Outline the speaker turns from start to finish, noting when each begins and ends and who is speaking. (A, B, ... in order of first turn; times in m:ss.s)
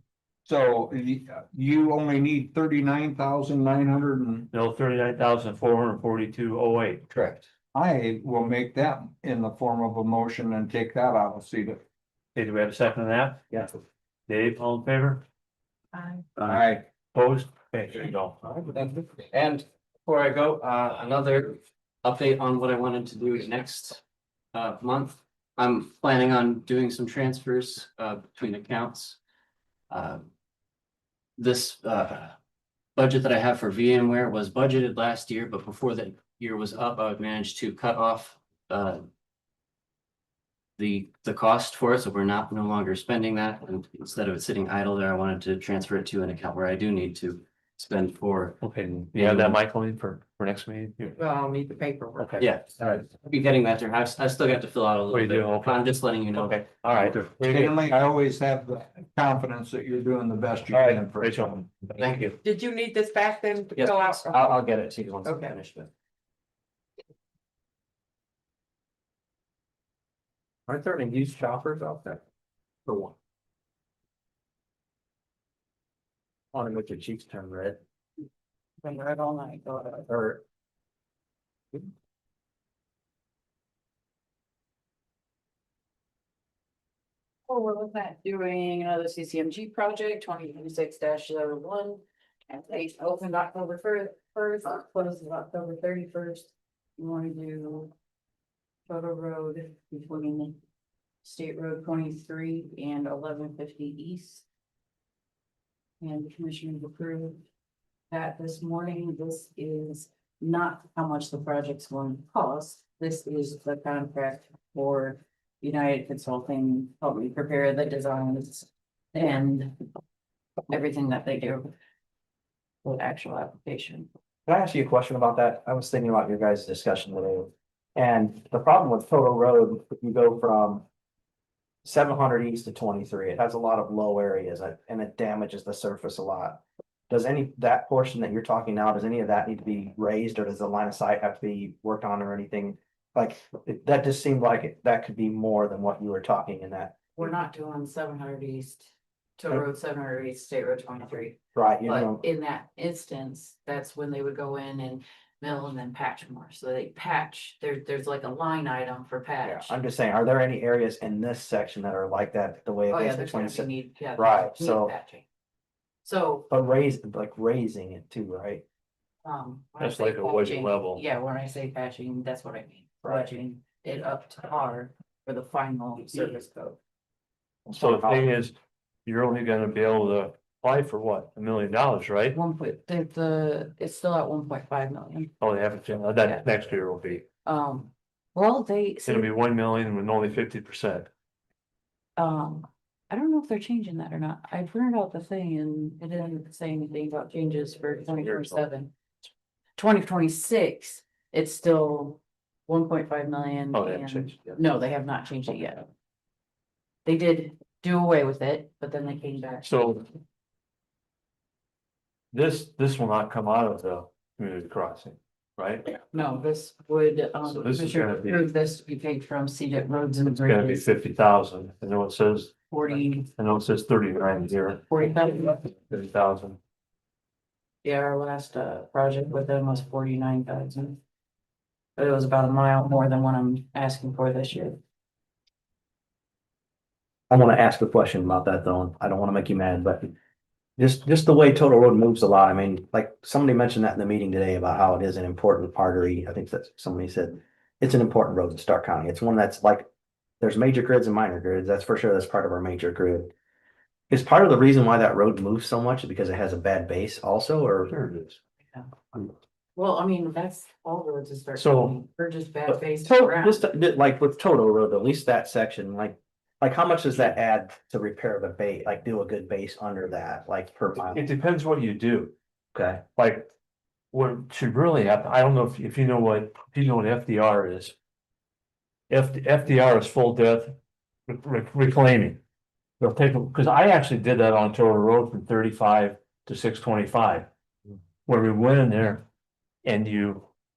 0:00.4-0:04.5 A
0:04.5-0:07.1 B
0:07.2-0:11.8 A
0:12.4-0:13.7 B
0:14.3-0:15.2 B
0:16.4-0:16.8 A
0:17.1-0:18.6 B
0:18.6-0:24.0 C
0:24.5-0:29.2 C
0:29.9-0:30.3 C
0:31.4-0:32.4 C
0:33.0-0:39.1 C
0:40.8-0:48.6 C
0:48.6-0:51.2 B
0:49.2-0:49.6 C
0:51.2-0:52.4 D
0:52.2-0:52.9 B
0:52.4-0:57.2 C
0:55.1-0:57.8 B
0:57.5-1:01.6 A
1:01.1-1:02.0 B
1:02.0-1:02.3 C
1:02.4-1:04.6 D
1:04.1-1:05.0 C
1:04.4-1:04.9 E
1:05.2-1:05.5 D
1:10.7-1:12.2 E
1:12.9-1:13.2 E
1:16.5-1:17.8 E
1:18.8-1:20.1 F
1:20.1-1:20.4 E
1:27.5-1:37.9 F
1:38.9-1:40.6 F
1:41.2-1:44.4 F
1:46.0-1:47.4 F
1:48.1-1:59.9 F
2:00.7-2:01.7 F
2:02.8-2:04.1 F
2:04.5-2:10.8 E
2:11.8-2:27.3 E
2:27.2-2:39.7 F
2:31.5-2:32.2 E
2:39.4-2:44.9 E
2:42.9-2:45.3 F
2:46.0-2:46.5 F
2:46.5-2:48.6 E
2:49.2-2:56.8 F
2:49.8-2:51.0 B
2:53.0-2:53.3 E
2:57.7-2:58.2 E
2:57.7-2:58.5 B
2:59.0-3:02.4 B
3:02.3-3:05.3 F
3:05.4-3:07.2 B
3:07.4-3:09.3 F
3:09.1-3:11.1 B
3:12.2-3:18.9 F
3:19.8-3:25.9 F
3:23.7-3:24.6 B
3:27.0-3:29.7 F
3:29.6-3:30.0 B
3:32.3-3:36.0 B
3:36.1-3:40.9 F
3:37.4-3:38.4 B
3:40.3-3:42.5 B
3:42.7-3:43.3 F
3:43.3-3:46.6 B
3:44.8-3:45.6 F
3:47.8-3:51.0 F
3:52.0-3:54.8 F
3:57.3-4:00.1 E
4:00.8-4:09.9 E
4:10.4-4:13.3 E
4:14.1-4:17.9 E
4:17.9-4:18.4 B
4:19.8-4:23.7 F
4:21.6-4:22.0 B
4:22.7-4:31.3 E
4:31.0-4:32.3 B
4:32.7-4:33.0 E
4:33.2-4:33.5 B
4:34.1-4:37.9 B
4:39.1-4:40.8 B
4:41.3-4:42.4 B
4:43.0-4:47.5 B
4:48.3-4:49.2 B
4:49.8-4:50.5 B